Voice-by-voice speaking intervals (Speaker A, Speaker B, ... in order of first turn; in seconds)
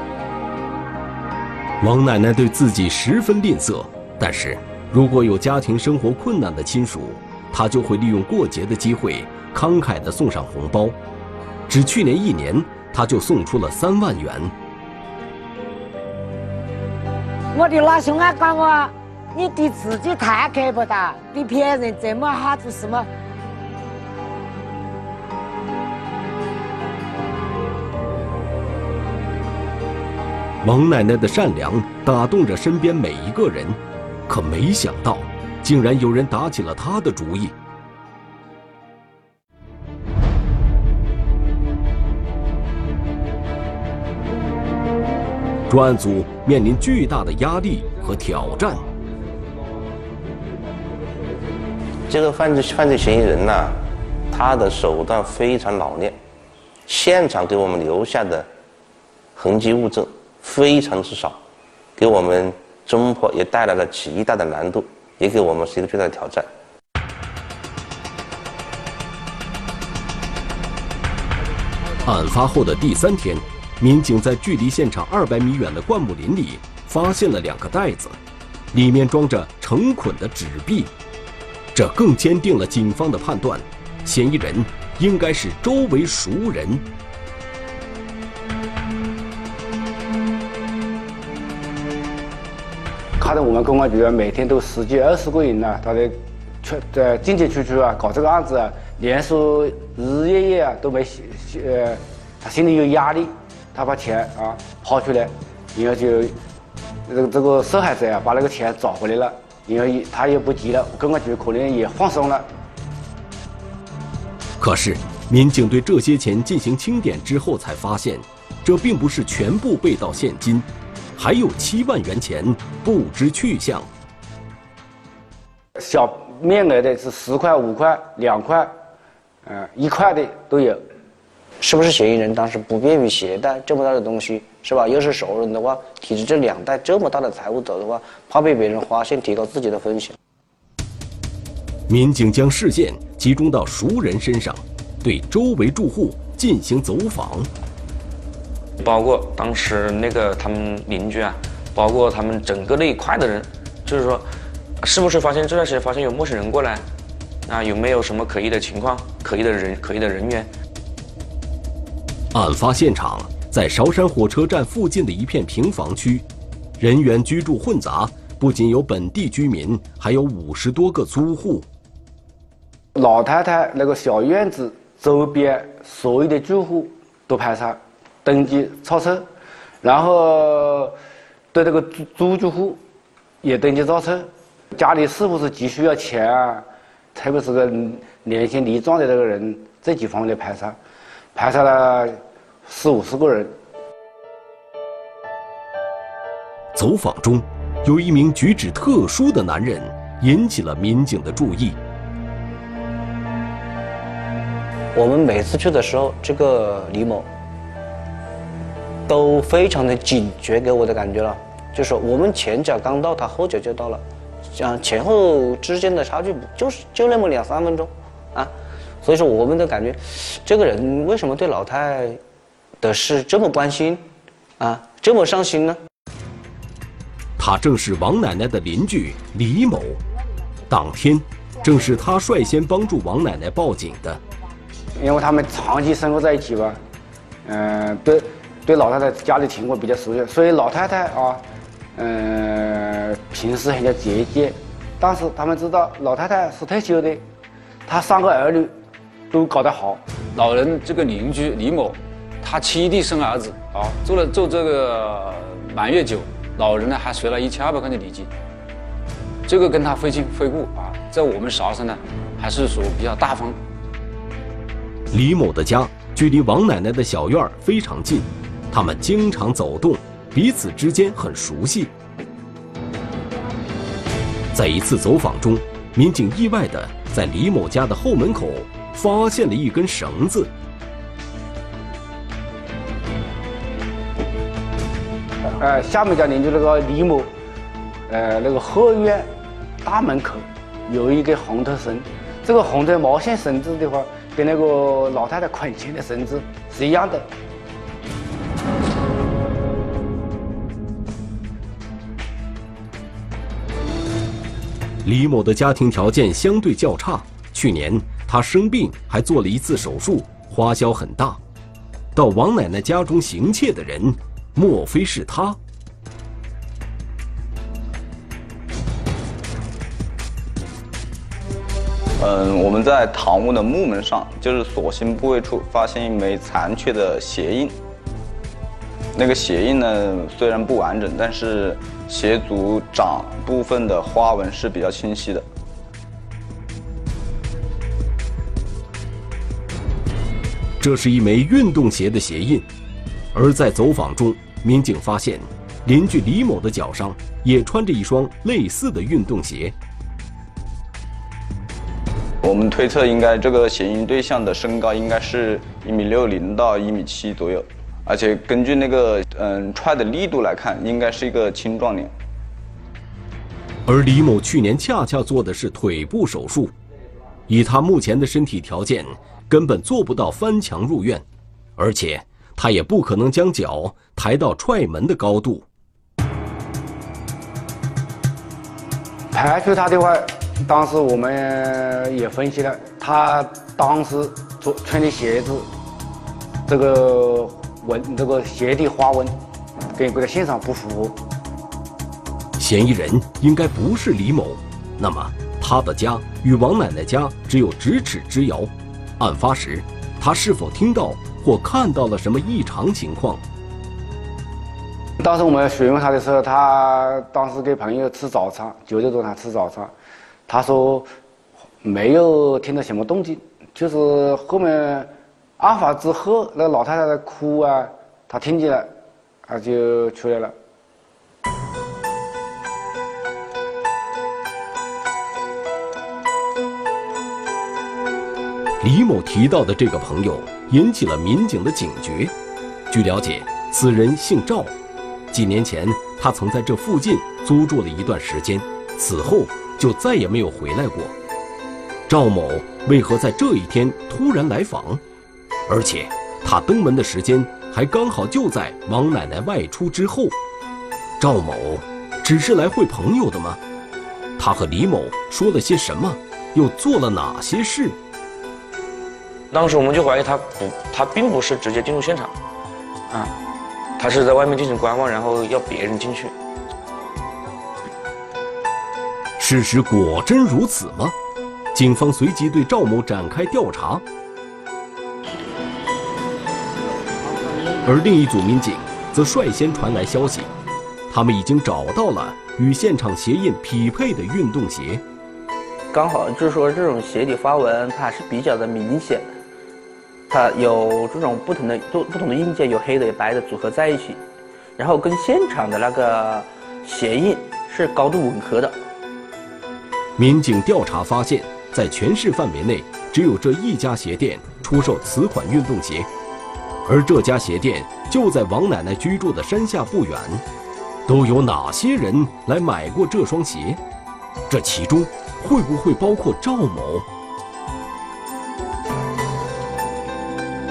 Speaker A: 1.8-11.0, 11.7-14.5, 30.6-37.5, 45.7-48.8, 72.0-78.2, 78.7-80.9, 81.7-86.8, 114.6-123.9, 141.9-147.5, 162.3-166.2, 166.8-171.7, 196.7-201.8, 227.4-230.0, 230.7-234.2, 265.1-271.9, 274.5-280.5, 305.0-311.4, 312.1-315.6, 340.8-342.6, 343.3-349.7, 363.9-366.7, 367.5-371.2, 371.8-375.6, 392.6-403.4, 428.8-432.3, 432.9-434.7, 435.3-441.1, 442.1-445.0, 445.7-450.3, 451.2-453.6, 454.4-458.0, 469.4-471.1, 471.7-474.0, 477.8-480.5, 481.1-485.0, 500.2-506.1, 506.8-510.4, 511.1-513.8, 514.5-517.0
Speaker B: 17.5-23.1
Speaker C: 52.1-53.8, 54.3-56.1, 56.9-58.5, 59.4-61.4, 62.0-66.5
Speaker D: 93.2-106.3, 107.1-112.5, 125.8-128.7, 129.4-130.8, 172.9-179.2, 179.8-180.9, 181.5-182.8, 183.4-190.8, 191.3-193.5, 234.9-236.8, 237.4-241.4, 241.9-247.2, 247.9-248.7, 249.3-250.0, 285.4-287.3, 288.1-289.3, 289.8-297.3, 379.3-385.7, 386.7-389.3, 389.9-391.1, 405.2-409.9, 410.5-411.1, 411.8-418.9, 419.4-420.5
Speaker E: 131.6-140.1, 204.9-207.3, 209.1-218.5, 219.0-222.2, 222.8-224.0, 224.6-225.8
Speaker F: 148.8-154.2, 154.8-156.8, 157.4-160.5, 459.5-462.3, 464.0-466.3
Speaker G: 250.3-258.3, 259.5-263.6
Speaker H: 322.2-327.8, 329.1-335.4, 352.4-362.1
Speaker I: 485.9-489.3, 490.3-494.2, 494.8-498.7